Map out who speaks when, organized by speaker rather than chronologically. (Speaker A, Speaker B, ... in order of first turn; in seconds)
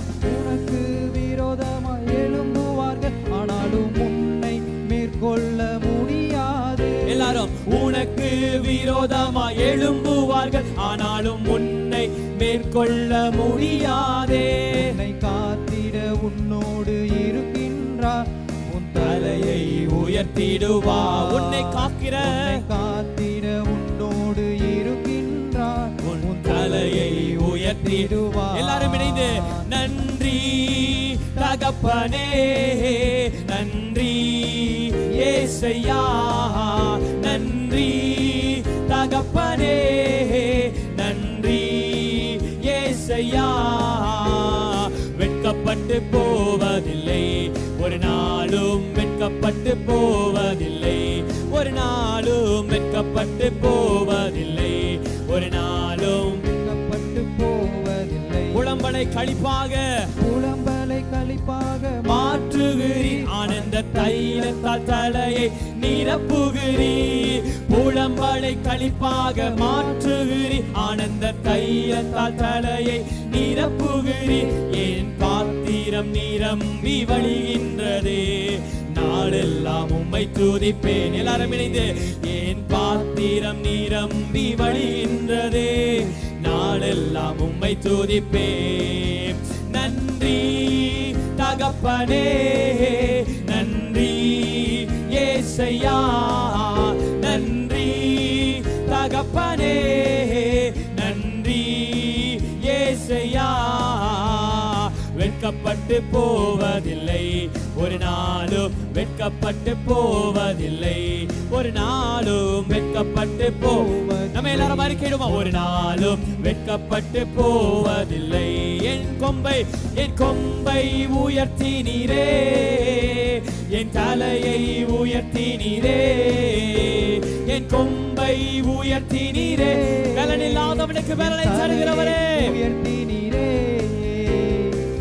Speaker A: 0.2-7.3, 14.7-29.7, 56.5-58.8, 60.2-64.4, 113.6-116.2, 129.6-134.8
Speaker B: 7.0-14.9, 19.0-22.6, 26.0-56.5, 58.5-60.1, 62.0-132.5